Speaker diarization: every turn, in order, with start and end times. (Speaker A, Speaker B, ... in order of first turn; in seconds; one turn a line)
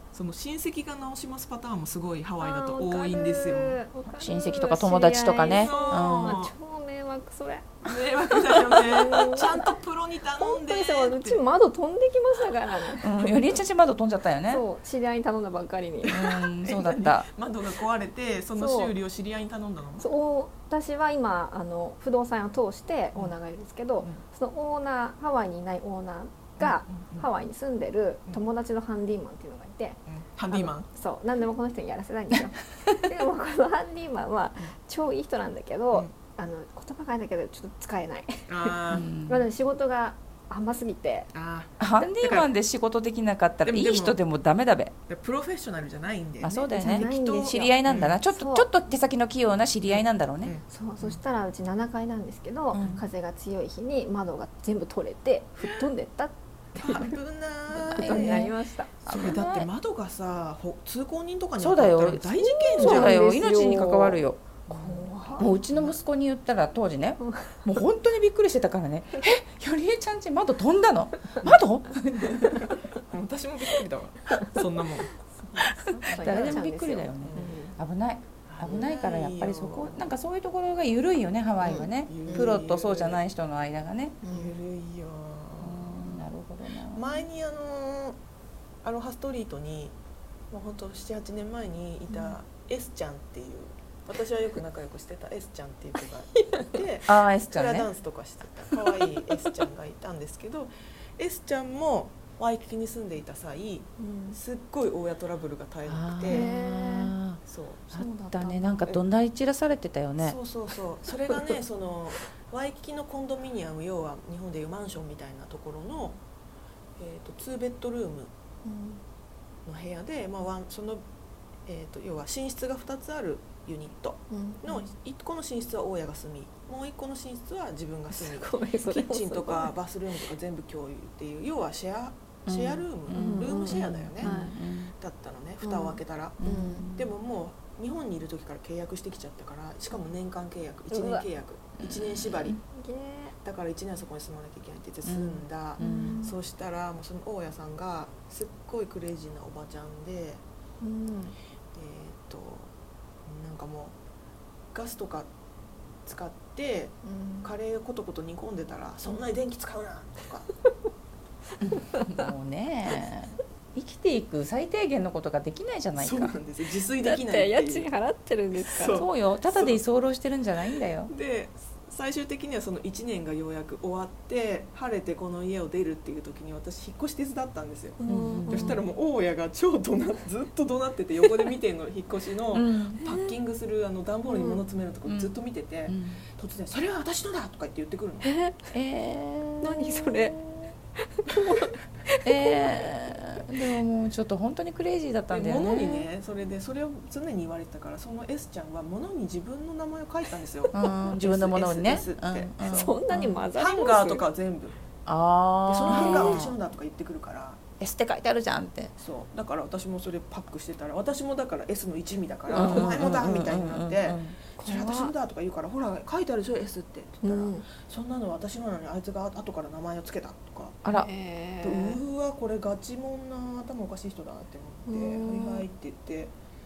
Speaker A: 0.1-3.9
Speaker B: 2.4-9.7
Speaker C: 4.2-6.4
Speaker A: 5.5-6.5
Speaker A: 7.9-11.4
Speaker B: 10.4-13.6
Speaker C: 13.0-14.6
Speaker B: 14.4-16.2
Speaker A: 16.0-20.1
Speaker C: 16.1-17.3
Speaker B: 18.6-18.9
Speaker B: 20.0-41.3
Speaker A: 26.6-27.3
Speaker A: 30.1-30.9
Speaker A: 38.5-39.1
Speaker C: 38.9-39.5
Speaker A: 41.3-42.5
Speaker C: 41.8-44.9
Speaker A: 43.6-44.2
Speaker A: 45.1-48.2
Speaker C: 46.4-50.5
Speaker B: 46.8-48.7
Speaker A: 49.9-51.2
Speaker B: 50.7-57.2
Speaker C: 52.7-53.0
Speaker A: 55.6-55.9
Speaker A: 56.8-63.2
Speaker B: 57.9-59.0
Speaker C: 58.0-58.5
Speaker C: 59.0-59.7
Speaker C: 61.6-72.7
Speaker B: 62.8-65.5
Speaker A: 65.4-66.0
Speaker B: 67.2-67.6
Speaker A: 72.2-75.1
Speaker B: 74.3-74.6
Speaker B: 75.3-77.8
Speaker C: 76.0-84.2
Speaker A: 76.2-76.6
Speaker A: 77.2-77.6
Speaker A: 78.5-80.1
Speaker B: 81.6-82.6
Speaker A: 82.0-83.2
Speaker B: 84.2-84.6
Speaker A: 84.3-86.3
Speaker C: 85.6-87.1
Speaker A: 86.9-88.2
Speaker A: 88.8-90.0
Speaker A: 90.5-106.5
Speaker B: 92.1-92.4
Speaker B: 96.0-96.8
Speaker C: 97.1-97.9
Speaker B: 98.7-99.5
Speaker B: 104.0-104.4
Speaker C: 105.8-107.4
Speaker B: 106.3-107.1
Speaker A: 107.5-107.9
Speaker B: 107.9-108.8
Speaker C: 107.9-110.4
Speaker A: 110.2-116.2
Speaker A: 117.0-118.3
Speaker B: 118.6-119.0
Speaker A: 119.7-121.0
Speaker A: 121.7-136.4
Speaker B: 124.3-124.9
Speaker B: 128.1-129.8
Speaker C: 132.5-134.9
Speaker B: 133.1-134.6
Speaker B: 135.6-136.9
Speaker C: 136.4-137.1
Speaker A: 136.9-142.6
Speaker B: 140.9-141.3
Speaker C: 141.8-142.6
Speaker B: 142.7-143.3
Speaker A: 143.4-150.4
Speaker C: 145.0-146.2
Speaker B: 145.8-146.4
Speaker B: 150.8-151.4
Speaker A: 151.7-152.7
Speaker A: 153.3-153.9
Speaker A: 154.7-155.3
Speaker A: 156.1-160.5
Speaker B: 157.0-157.5
Speaker C: 161.6-166.3
Speaker A: 166.0-167.9
Speaker B: 166.9-169.1
Speaker A: 168.5-169.8
Speaker C: 168.9-171.1
Speaker A: 171.1-188.3
Speaker B: 178.0-178.8
Speaker C: 178.1-178.8
Speaker C: 182.5-183.1
Speaker B: 184.3-184.6
Speaker C: 185.1-186.2
Speaker B: 188.2-188.7
Speaker C: 188.7-190.5
Speaker B: 189.6-190.4
Speaker B: 191.0-192.8
Speaker C: 192.2-196.1
Speaker A: 195.3-202.9
Speaker C: 200.7-203.4
Speaker B: 200.8-201.1
Speaker B: 202.6-204.2
Speaker A: 203.5-204.8
Speaker C: 205.1-206.6
Speaker A: 205.7-207.6
Speaker B: 205.9-206.5
Speaker C: 207.8-208.9
Speaker A: 209.0-220.8
Speaker C: 212.5-214.4
Speaker B: 212.6-212.9
Speaker B: 214.6-215.1
Speaker B: 217.2-217.7
Speaker B: 220.9-222.0
Speaker A: 221.6-226.3
Speaker B: 224.9-225.7